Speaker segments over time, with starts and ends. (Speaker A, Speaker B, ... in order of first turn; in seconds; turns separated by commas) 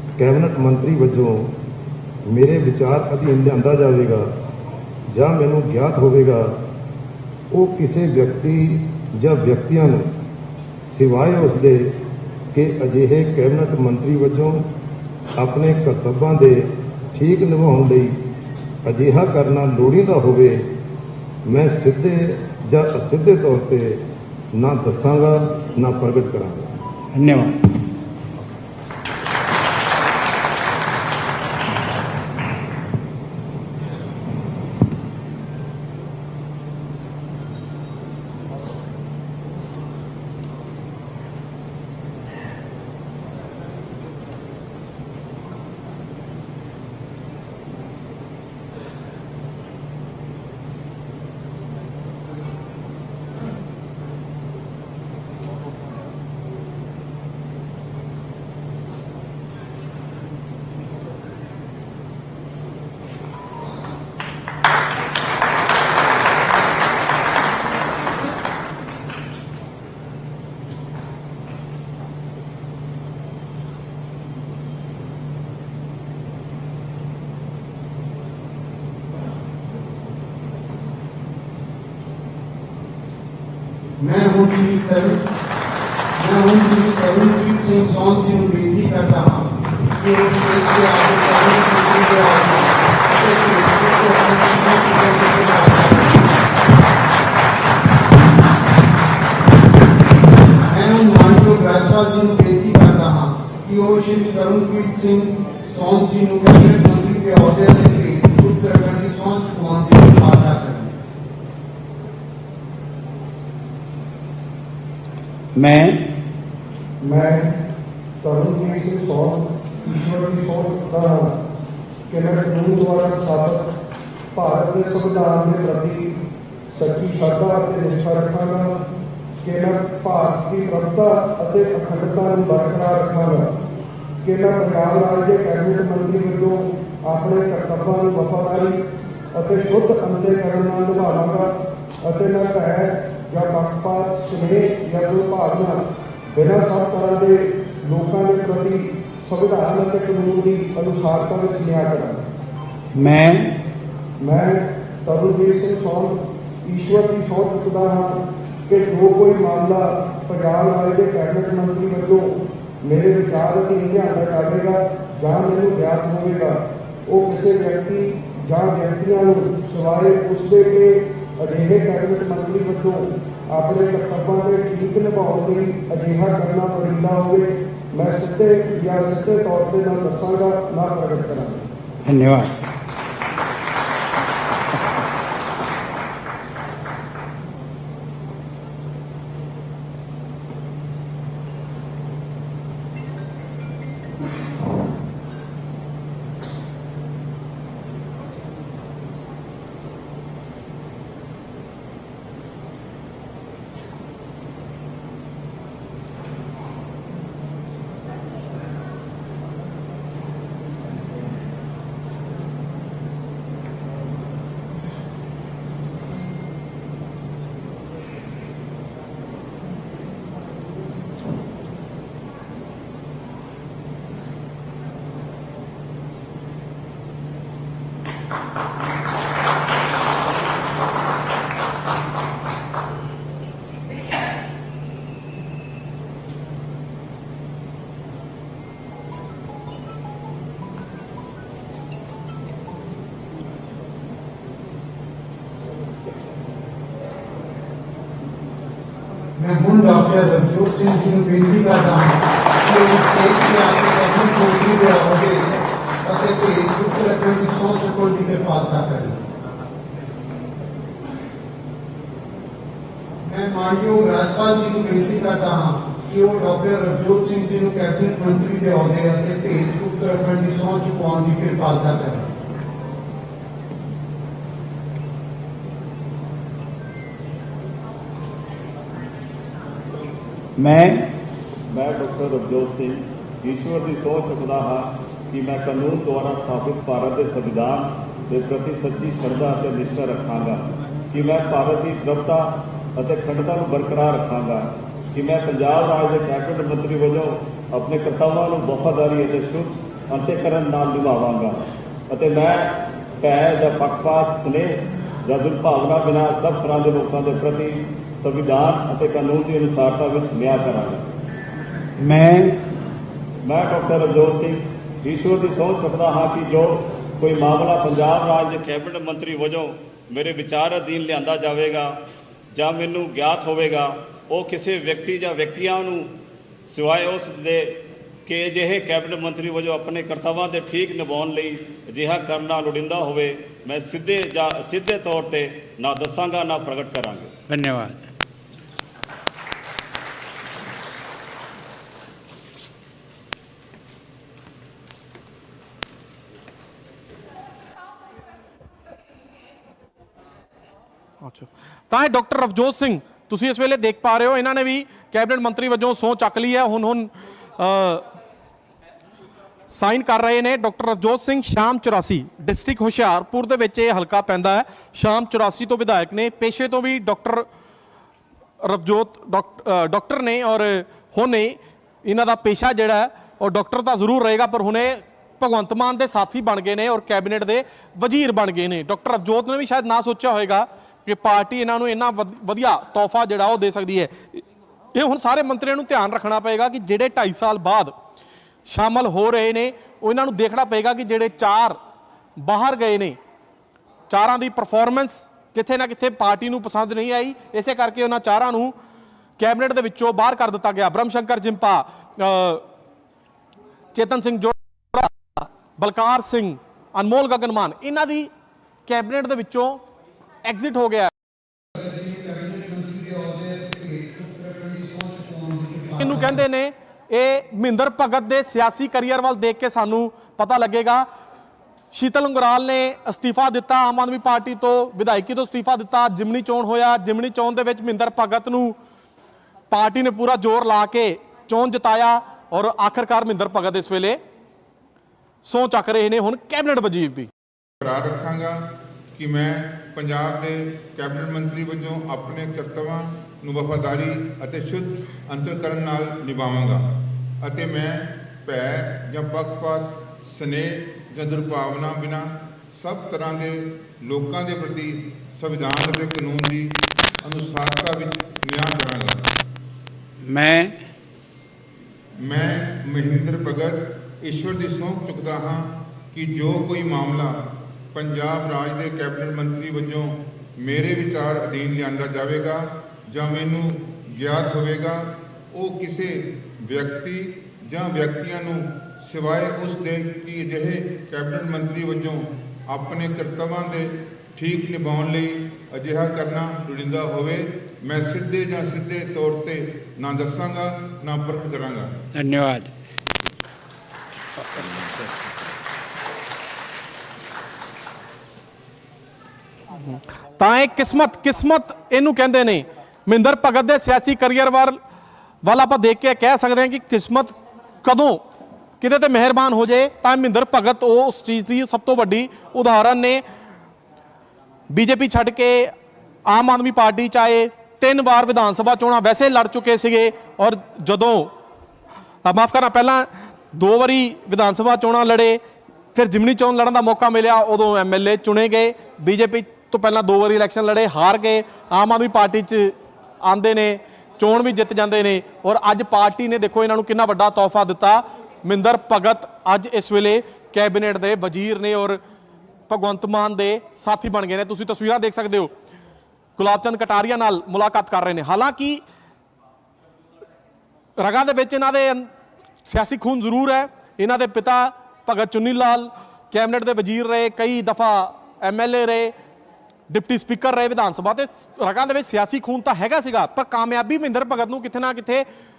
Speaker A: 0.1-1.5, Speaker A: 2.2-4.3, Speaker A: 5.1-6.6, Speaker A: 7.5-10.1, Speaker A: 10.8-11.9, Speaker A: 12.5-14.7, Speaker A: 15.3-18.2, Speaker A: 18.8-20.7, Speaker A: 21.4-26.7, Speaker B: 27.1-27.6, Speaker C: 84.0-85.2, Speaker C: 86.2-96.4, Speaker C: 100.6-110.9, Speaker B: 115.5-116.0, Speaker D: 117.0-117.5, Speaker D: 118.2-121.3, Speaker D: 122.1-123.7, Speaker D: 124.3-126.1, Speaker D: 126.7-128.7, Speaker D: 129.4-133.5, Speaker D: 134.2-138.8, Speaker D: 139.3-141.5, Speaker D: 142.0-145.8, Speaker D: 146.3-152.2, Speaker B: 152.9-153.6, Speaker D: 154.2-162.3, Speaker D: 162.8-181.6, Speaker B: 182.0-182.5, Speaker C: 249.4-259.2, Speaker C: 263.2-272.3, Speaker B: 280.6-281.1, Speaker E: 281.7-311.1, Speaker B: 312.0-312.6, Speaker E: 313.4-321.9, Speaker E: 322.5-326.1, Speaker E: 326.7-327.7, Speaker E: 328.3-337.3, Speaker B: 337.5-338.1, Speaker F: 351.2-358.1, Speaker F: 359.7-367.5, Speaker F: 368.6-384.4, Speaker F: 384.9-387.9, Speaker F: 388.7-391.8, Speaker F: 392.4-393.2, Speaker F: 394.1-398.7, Speaker F: 399.4-402.6, Speaker F: 403.9-408.3, Speaker F: 408.9-409.8, Speaker F: 410.4-411.1, Speaker C: 411.8-416.2, Speaker F: 416.0-421.1, Speaker F: 421.9-428.8, Speaker F: 429.7-434.2, Speaker F: 435.4-437.3, Speaker G: 437.8-459.3, Speaker B: 460.2-460.8, Speaker G: 462.2-467.4, Speaker G: 467.9-491.9, Speaker B: 492.1-492.7, Speaker B: 494.5-494.9, Speaker F: 499.9-504.8, Speaker F: 505.4-508.2, Speaker F: 508.8-513.2, Speaker F: 514.7-515.7, Speaker F: 516.2-521.3, Speaker F: 522.2-525.4, Speaker F: 525.9-542.0, Speaker F: 542.7-545.5, Speaker F: 546.4-548.8, Speaker F: 551.0-552.1, Speaker F: 552.6-559.1, Speaker F: 559.9-565.3